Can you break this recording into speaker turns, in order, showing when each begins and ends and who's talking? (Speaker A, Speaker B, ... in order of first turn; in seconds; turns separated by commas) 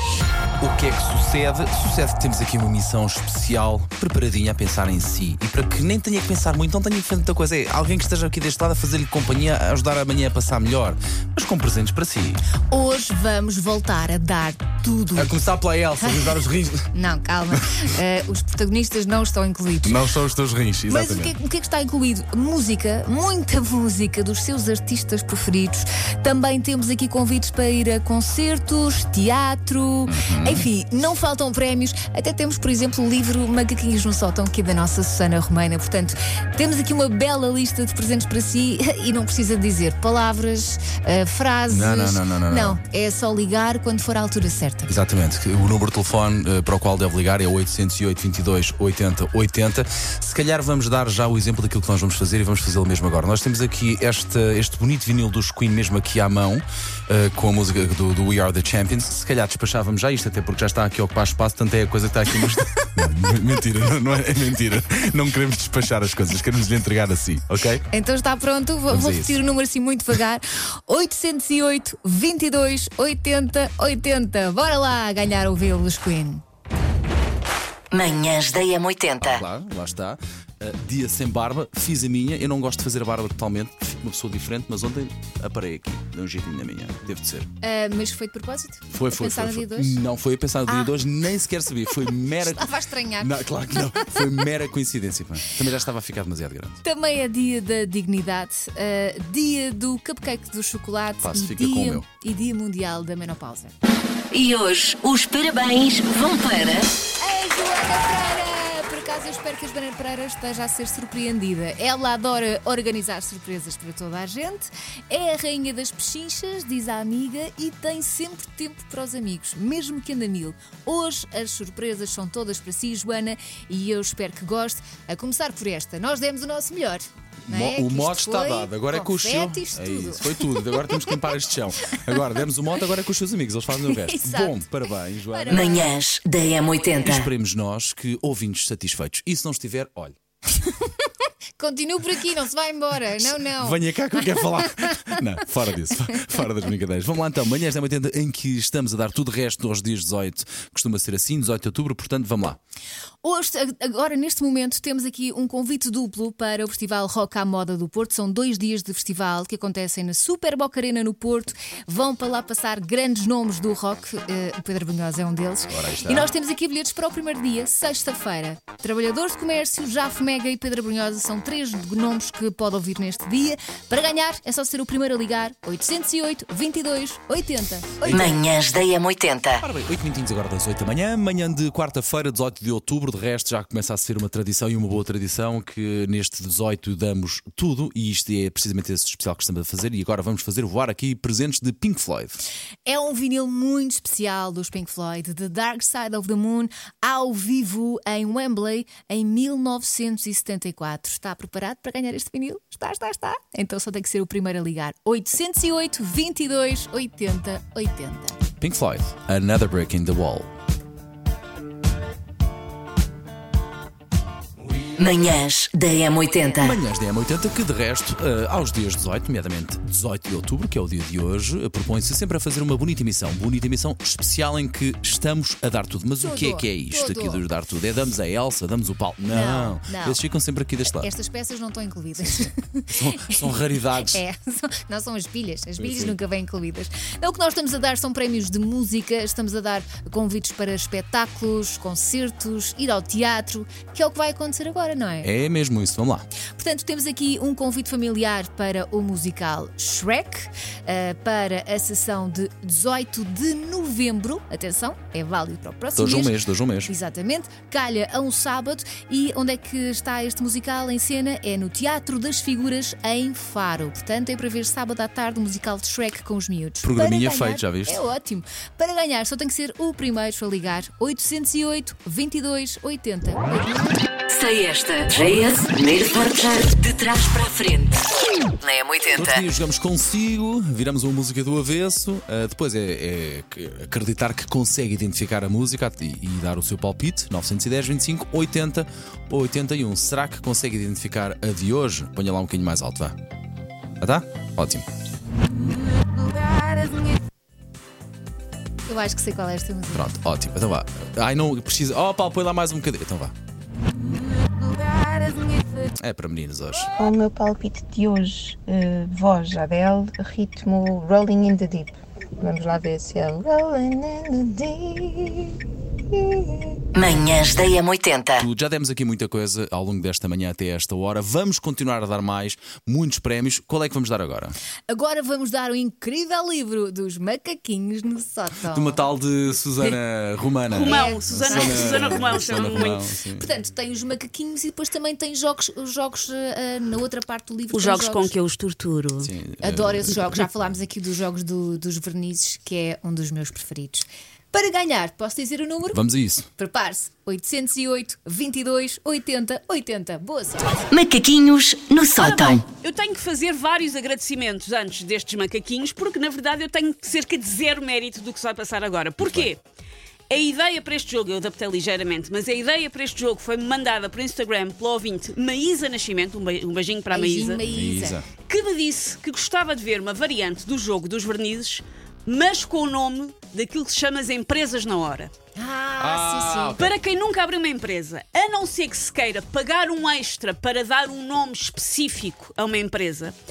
Speaker A: 0.6-12.4, Speaker B: 12.7-15.5, Speaker A: 15.2-16.9, Speaker B: 16.0-16.4, Speaker B: 16.9-20.1, Speaker A: 17.5-17.9, Speaker A: 19.8-21.4, Speaker B: 20.9-44.9, Speaker A: 30.1-30.7, Speaker A: 41.7-42.8, Speaker A: 44.9-67.8, Speaker B: 67.9-76.4, Speaker A: 68.9-69.4, Speaker C: 77.9-79.4, Speaker A: 79.2-87.5, Speaker B: 87.6-90.0, Speaker A: 88.9-96.8, Speaker B: 90.7-91.1, Speaker B: 92.0-94.5, Speaker B: 96.8-103.8, Speaker A: 101.2-102.1, Speaker C: 104.3-106.9, Speaker B: 107.2-131.2, Speaker A: 127.5-135.8, Speaker B: 132.0-132.3, Speaker B: 133.7-134.7, Speaker B: 135.3-135.9, Speaker C: 135.5-137.3, Speaker A: 137.0-140.2, Speaker B: 140.6-141.0, Speaker B: 141.6-144.9, Speaker A: 143.2-152.6, Speaker B: 153.2-178.3, Speaker A: 165.7-166.3, Speaker A: 178.1-178.3, Speaker C: 178.1-179.6, Speaker A: 179.6-192.4, Speaker B: 192.9-208.4, Speaker A: 208.6-210.5, Speaker C: 215.0-216.8, Speaker A: 216.5-231.1, Speaker B: 226.2-227.4, Speaker B: 229.3-230.2, Speaker B: 230.9-245.3, Speaker A: 232.9-234.2, Speaker A: 235.8-236.2, Speaker A: 245.2-246.3, Speaker B: 246.6-256.3, Speaker A: 256.0-256.9, Speaker B: 256.9-273.7, Speaker A: 266.8-268.0, Speaker C: 274.3-278.0, Speaker C: 278.6-279.5, Speaker A: 279.1-293.1, Speaker A: 294.0-294.9, Speaker B: 298.9-300.1, Speaker A: 299.9-303.3, Speaker A: 306.0-306.9, Speaker D: 307.0-309.1, Speaker D: 310.0-311.8, Speaker D: 312.4-313.0, Speaker D: 315.0-315.3, Speaker C: 316.9-318.5, Speaker A: 318.3-324.6, Speaker B: 324.9-329.1, Speaker A: 328.7-333.5, Speaker E: 330.7-333.0, Speaker B: 330.9-338.3, Speaker E: 337.7-339.3, Speaker A: 339.2-340.4, Speaker B: 339.6-346.0, Speaker A: 345.9-346.5, Speaker B: 346.6-350.8, Speaker C: 350.9-352.6, Speaker E: 352.2-359.6, Speaker A: 359.2-359.5, Speaker E: 360.3-367.6, Speaker B: 367.1-368.2, Speaker A: 367.6-368.3, Speaker E: 368.4-375.3, Speaker B: 375.6-376.9, Speaker A: 376.0-376.9, Speaker E: 376.8-383.4